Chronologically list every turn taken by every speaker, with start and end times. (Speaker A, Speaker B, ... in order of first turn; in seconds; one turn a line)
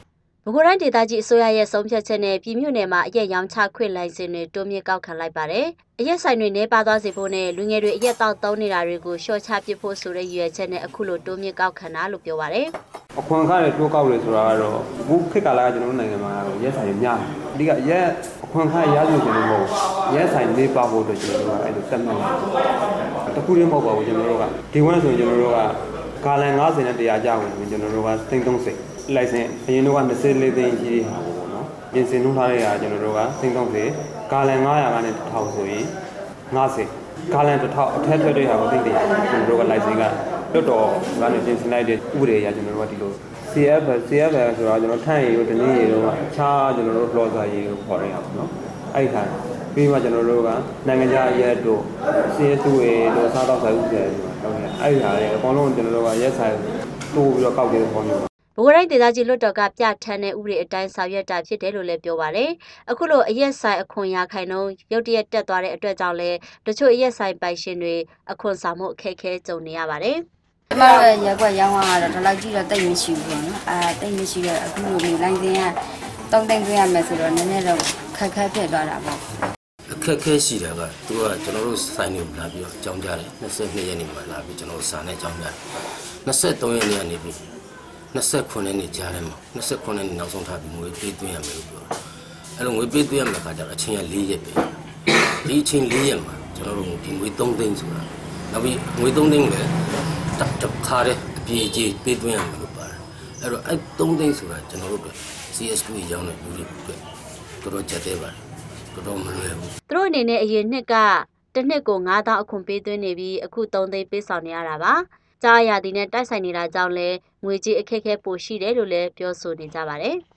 Speaker A: 0.5-12.7
Speaker B: 13.2-22.4
Speaker B: 23.3-35.9
Speaker B: 36.5-58.3
Speaker A: 58.6-70.2
Speaker C: 70.7-75.8
Speaker C: 76.3-79.2
Speaker D: 79.9-85.6
Speaker D: 86.2-87.4
Speaker D: 88.1-91.9
Speaker D: 92.6-94.7
Speaker D: 95.4-99.7
Speaker D: 100.3-107.0
Speaker D: 107.6-108.4
Speaker D: 108.9-109.7
Speaker A: 109.9-120.2